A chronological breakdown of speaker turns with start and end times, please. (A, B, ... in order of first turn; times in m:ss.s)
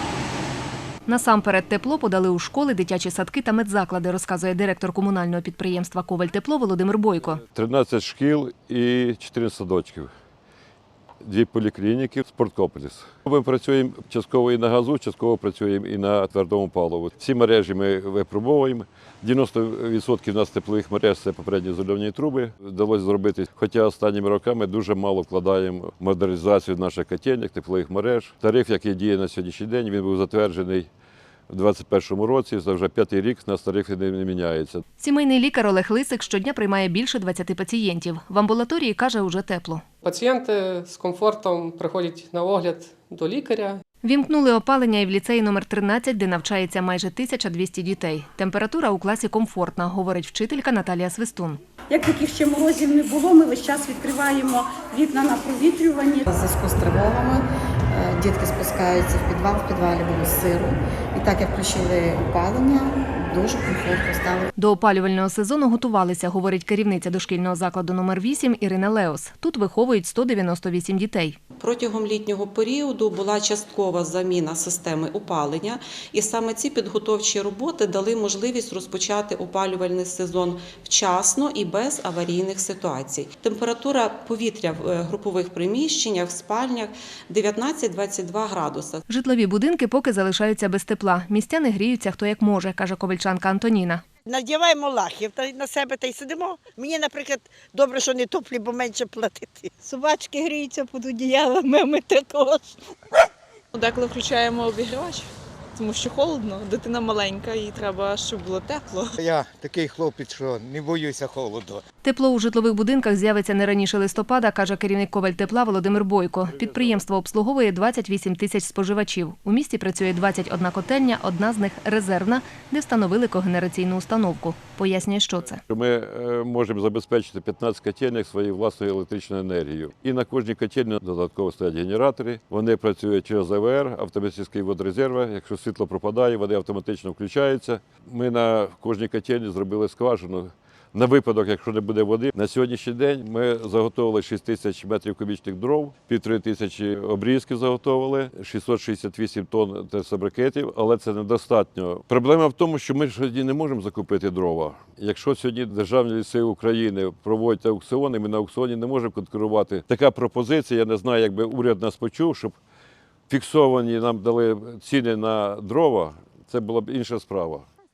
0:01.0-0:07.4 A
0:07.5-0:10.1 B
0:11.2-0:30.9 B
0:31.5-0:34.8 B
0:35.0-0:39.8 A
0:40.0-0:43.8 C
0:44.0-0:51.6 A
0:51.9-0:56.2 D
0:56.2-1:04.5 E
1:04.6-1:11.4 A
1:11.6-1:29.0 F
1:29.1-1:34.0 A
1:34.2-1:39.8 G
1:39.8-1:42.7 H
1:43.7-1:49.1 I
1:49.2-1:51.8 J
1:52.0-2:05.6 A
2:05.7-2:42.6 B
2:43.3-2:47.6 B